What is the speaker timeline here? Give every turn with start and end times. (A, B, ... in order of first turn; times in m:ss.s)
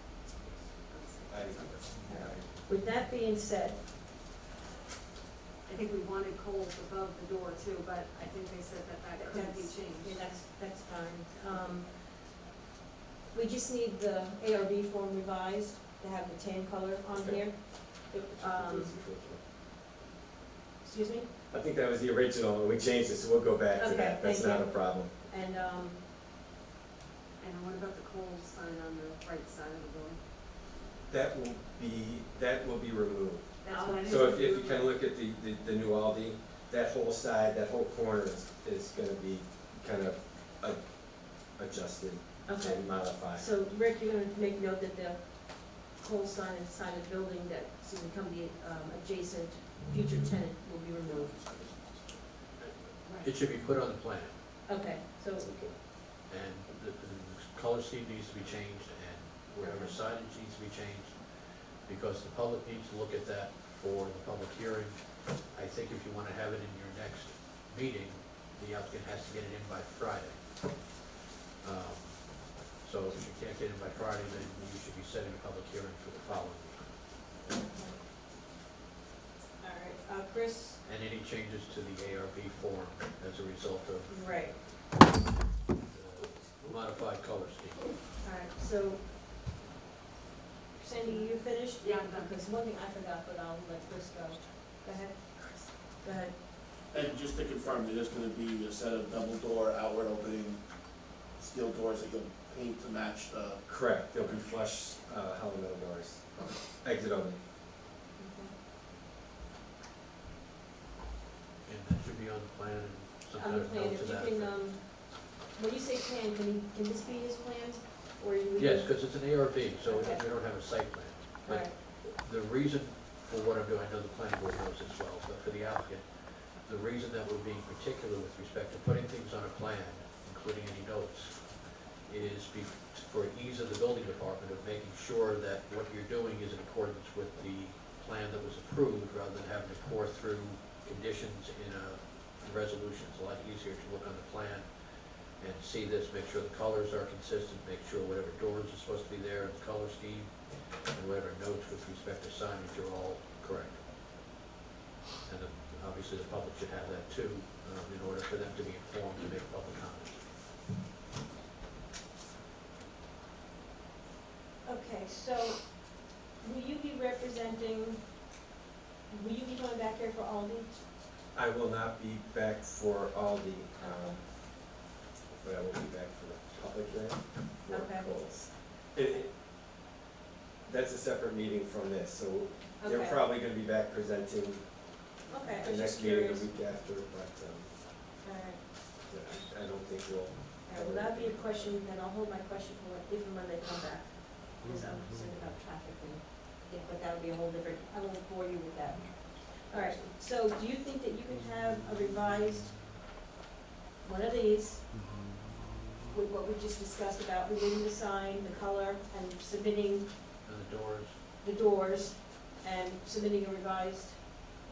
0:00.7-0:02.1 A
0:01.3-0:02.6 B
0:02.1-0:03.8 C
0:05.7-0:10.3 A
0:09.2-0:12.1 C
0:13.3-0:18.9 C
0:17.1-0:19.4 B
0:20.8-0:21.3 C
0:21.5-0:25.1 B
0:23.8-0:26.0 C
0:27.4-0:30.2 A
0:31.1-0:33.5 B
0:33.6-0:34.9 A
0:33.7-0:34.4 C
0:34.0-0:43.5 B
0:42.5-0:51.7 C
0:51.1-0:52.0 D
0:52.6-0:54.4 E
0:53.0-0:53.3 A
0:54.7-0:55.6 C
0:56.2-1:10.9 E
0:59.6-1:00.0 C
1:11.6-1:16.9 E
1:17.4-1:18.0 C
1:19.6-1:20.8 C
1:20.8-1:25.1 E
1:24.1-1:24.6 C
1:25.8-1:28.0 E
1:28.2-1:29.1 C
1:30.7-1:36.5 C
1:31.8-1:32.4 A
1:36.9-1:40.6 D
1:41.3-1:44.4 D
1:43.7-1:47.4 B
1:48.2-1:48.5 C
1:51.6-1:54.6 E
1:53.4-1:59.0 C
1:58.6-2:33.9 E
1:59.8-2:00.2 C
2:01.4-2:01.8 C
2:35.2-2:40.3 E
2:44.6-2:48.1 C
2:49.1-2:50.8 C
2:51.3-2:54.8 B
2:55.3-2:59.3 B
2:57.7-2:58.1 C
3:00.6-3:04.9 B
3:02.8-3:03.2 C
3:05.3-3:06.5 C
3:05.6-3:07.8 B
3:08.2-3:08.9 C
3:09.1-3:11.7 B
3:10.7-3:22.8 C
3:19.7-3:20.0 B
3:24.0-3:24.8 C
3:26.1-3:30.1 C
3:30.4-3:31.2 E
3:31.4-3:34.4 C